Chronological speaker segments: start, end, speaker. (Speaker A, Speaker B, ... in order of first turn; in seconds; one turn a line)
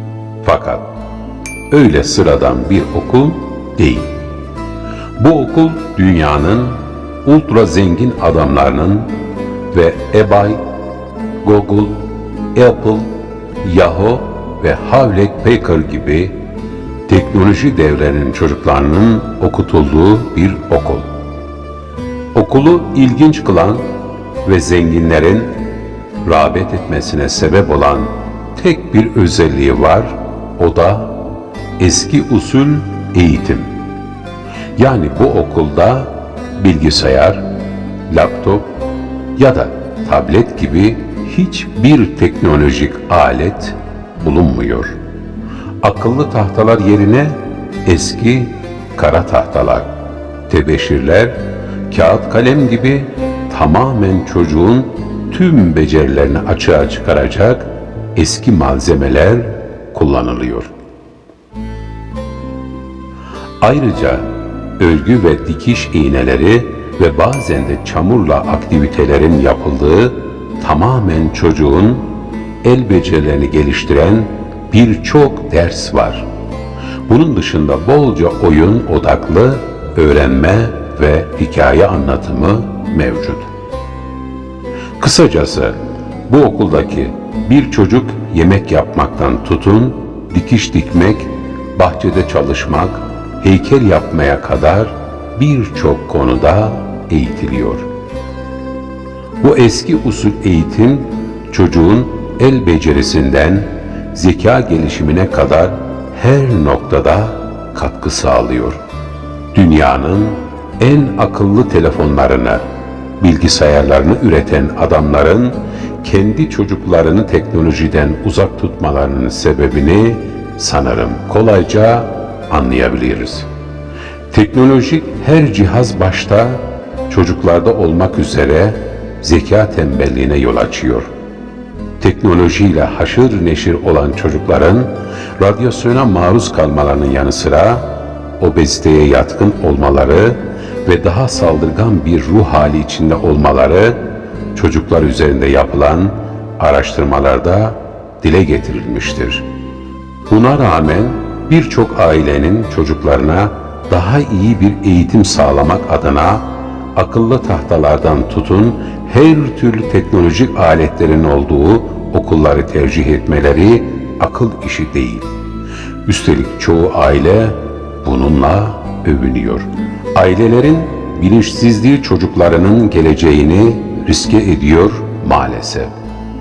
Speaker A: 0.4-0.9
Speaker A: 1.7-4.1
Speaker A: 5.2-9.1
Speaker A: 9.7-10.6
Speaker A: 11.4-13.1
Speaker A: 13.6-16.3
Speaker A: 17.1-21.1
Speaker A: 22.3-23.9
Speaker A: 24.4-25.5
Speaker A: 26.2-31.1
Speaker A: 31.8-33.7
Speaker A: 34.8-37.4
Speaker A: 38.1-38.7
Speaker A: 39.4-45.0
Speaker A: 45.8-49.9
Speaker A: 50.5-60.7
Speaker A: 63.6-72.1
Speaker A: 72.6-76.3
Speaker A: 77.1-83.5
Speaker A: 85.0-97.9
Speaker A: 99.4-108.8
Speaker A: 109.5-112.7
Speaker A: 113.2-123.5
Speaker A: 124.3-131.1
Speaker A: 132.0-144.0
Speaker A: 144.5-149.4
Speaker A: 150.3-165.3
Speaker A: 166.0-175.9